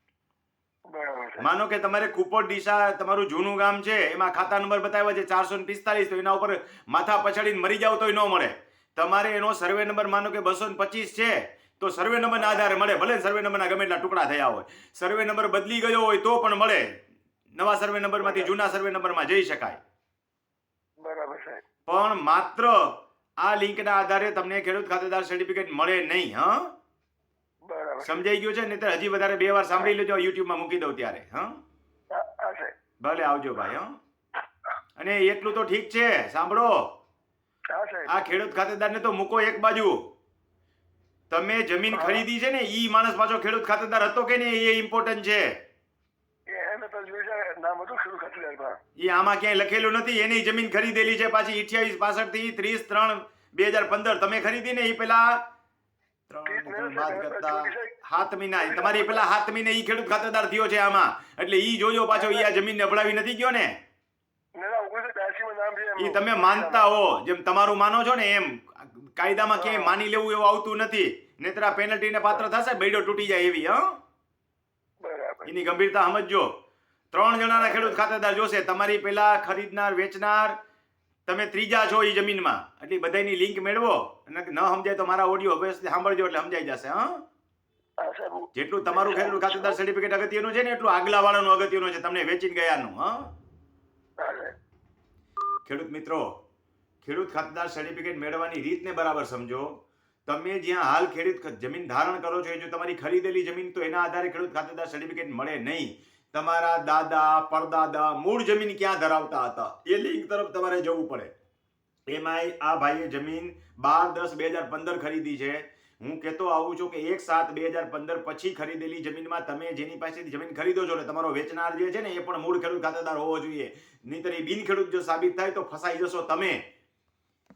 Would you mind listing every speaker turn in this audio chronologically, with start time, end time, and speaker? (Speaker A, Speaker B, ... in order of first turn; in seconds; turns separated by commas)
Speaker A: 0.9-1.5, Speaker B: 1.4-16.8, Speaker A: 12.4-12.8, Speaker B: 17.6-19.8, Speaker A: 18.2-18.5, Speaker A: 21.0-21.6, Speaker B: 21.9-22.8, Speaker B: 23.4-26.6, Speaker A: 27.7-28.2, Speaker B: 28.0-31.5, Speaker A: 32.1-32.7, Speaker B: 33.0-33.9, Speaker B: 35.0-36.8, Speaker A: 37.7-38.3, Speaker B: 38.1-40.0, Speaker B: 41.3-45.5, Speaker A: 41.9-42.2, Speaker A: 46.5-48.8, Speaker B: 49.0-55.4, Speaker B: 56.3-63.7, Speaker A: 56.5-58.0, Speaker A: 58.6-59.2, Speaker A: 62.1-62.5, Speaker A: 64.6-66.9, Speaker B: 66.0-73.8, Speaker A: 69.5-69.9, Speaker A: 75.0-75.5, Speaker B: 75.5-76.5, Speaker B: 77.1-80.5, Speaker A: 77.5-78.0, Speaker B: 81.3-87.2, Speaker A: 88.0-89.8, Speaker B: 88.5-93.3, Speaker A: 94.2-94.5, Speaker B: 95.7-96.3, Speaker B: 97.0-99.7, Speaker B: 100.3-111.3, Speaker B: 112.1-126.6